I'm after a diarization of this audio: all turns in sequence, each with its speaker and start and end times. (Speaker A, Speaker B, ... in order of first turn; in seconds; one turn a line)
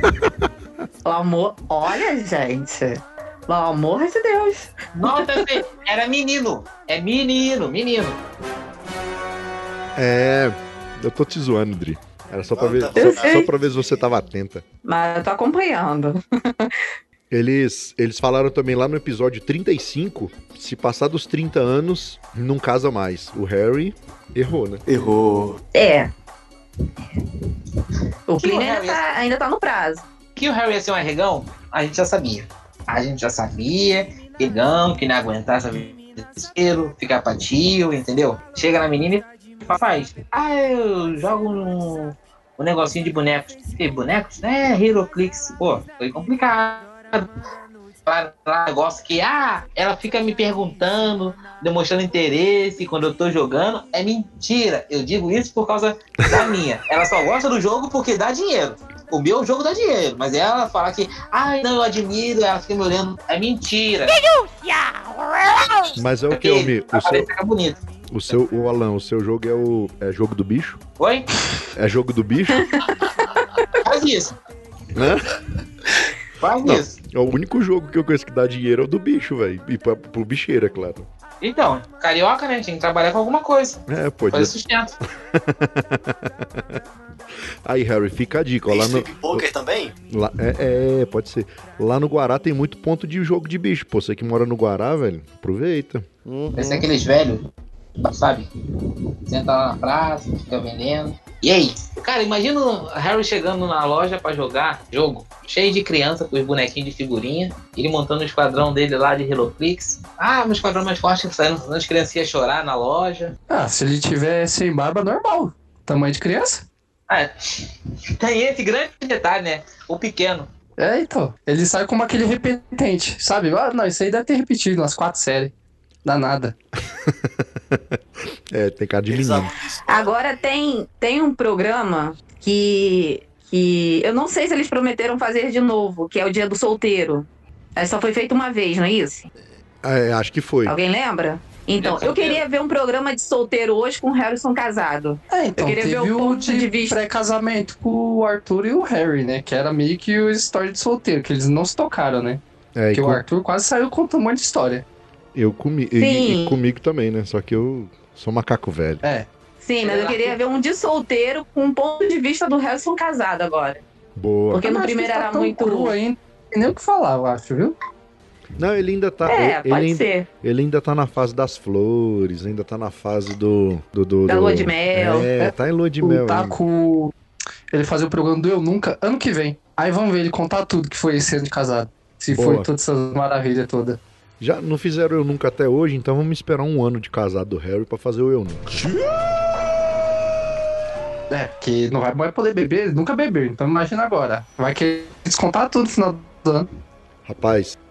Speaker A: 1.0-5.4
Speaker B: 5.0-8.2
Speaker C: 9.9-14.6
Speaker D: 12.5-13.5
Speaker A: 12.9-13.5
Speaker A: 14.8-16.7
Speaker C: 17.3-24.8
Speaker A: 25.7-26.1
Speaker A: 28.3-30.0
Speaker B: 28.4-29.1
Speaker B: 30.4-47.3
Speaker B: 48.0-64.2
Speaker C: 65.9-67.3
Speaker B: 66.3-67.8
Speaker C: 68.1-70.8
Speaker B: 71.0-71.3
Speaker C: 71.7-72.7
Speaker B: 73.8-74.3
Speaker C: 74.9-75.4
Speaker B: 76.4-77.0
Speaker C: 76.6-81.1
Speaker B: 81.4-84.9
Speaker C: 83.9-84.5
Speaker C: 85.3-86.8
Speaker C: 87.6-89.5
Speaker D: 88.7-89.9
Speaker C: 90.1-96.0
Speaker B: 96.5-97.5
Speaker B: 98.0-98.5
Speaker B: 99.2-113.3
Speaker E: 113.5-116.6
Speaker B: 117.1-120.5
Speaker E: 120.8-125.5
Speaker E: 126.0-126.5
Speaker C: 126.9-128.0
Speaker C: 128.5-129.5
Speaker D: 129.1-130.3
Speaker A: 129.9-139.3
Speaker C: 139.8-140.7
Speaker A: 140.7-147.0
Speaker B: 141.8-142.4
Speaker E: 145.3-152.4
Speaker C: 152.8-153.2
Speaker E: 152.9-154.8
Speaker C: 155.3-159.0
Speaker A: 156.0-156.6
Speaker E: 159.0-159.3
Speaker A: 159.6-163.8
Speaker B: 159.8-160.3
Speaker C: 164.2-164.7
Speaker A: 164.5-165.9
Speaker E: 164.6-167.8
Speaker C: 168.6-176.6
Speaker A: 169.2-170.3
Speaker A: 174.3-175.3
Speaker E: 175.3-177.1
Speaker E: 177.7-184.0
Speaker C: 182.3-182.7
Speaker C: 184.4-188.8
Speaker E: 191.3-196.7
Speaker C: 197.2-197.8